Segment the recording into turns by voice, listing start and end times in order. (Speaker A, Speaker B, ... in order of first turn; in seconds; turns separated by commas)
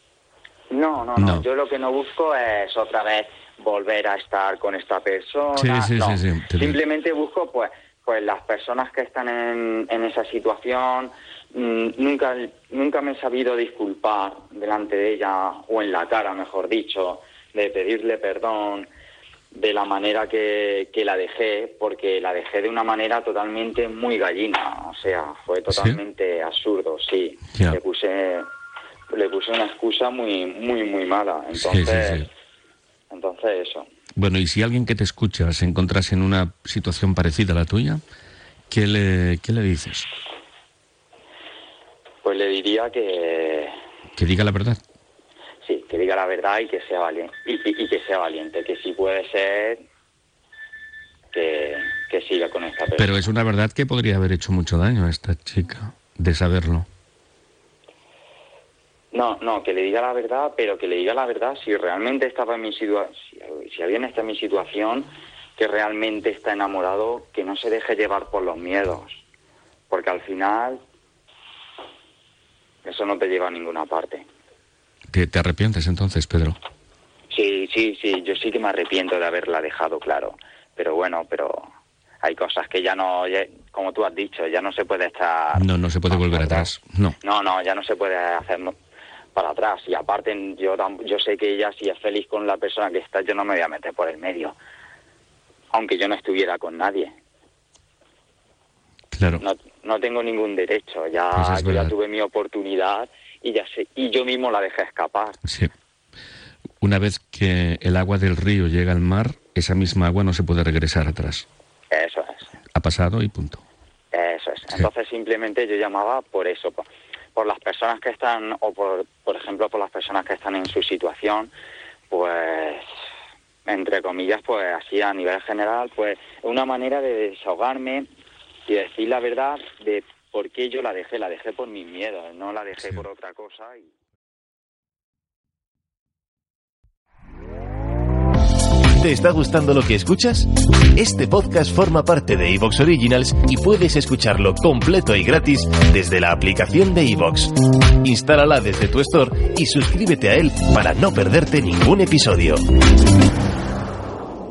Speaker A: 0.7-18.9, Speaker B: 1.2-1.5, Speaker B: 5.5-6.8, Speaker A: 19.5-28.5, Speaker B: 25.7-26.0, Speaker B: 27.5-27.8, Speaker A: 29.1-32.3, Speaker B: 31.6-32.3, Speaker A: 33.1-33.9, Speaker B: 34.2-38.0, Speaker B: 38.7-40.1, Speaker A: 42.2-43.7, Speaker B: 44.1-44.8, Speaker A: 45.6-49.8, Speaker A: 51.3-53.2, Speaker B: 53.0-56.9, Speaker A: 59.1-69.2, Speaker A: 69.9-70.8, Speaker A: 72.8-74.3, Speaker B: 75.1-76.6, Speaker A: 77.3-81.7, Speaker A: 82.2-86.7, Speaker B: 85.5-87.2, Speaker A: 87.2-88.7, Speaker A: 89.3-94.5, Speaker A: 95.7-97.1, Speaker B: 99.1-99.4, Speaker A: 99.4-105.4, Speaker B: 101.3-101.9, Speaker B: 105.5-105.7, Speaker B: 106.8-111.5, Speaker A: 111.9-112.5, Speaker B: 112.7-113.6, Speaker A: 114.1-121.5, Speaker A: 122.1-122.9, Speaker A: 123.7-128.1, Speaker A: 128.7-133.9, Speaker C: 139.0-152.6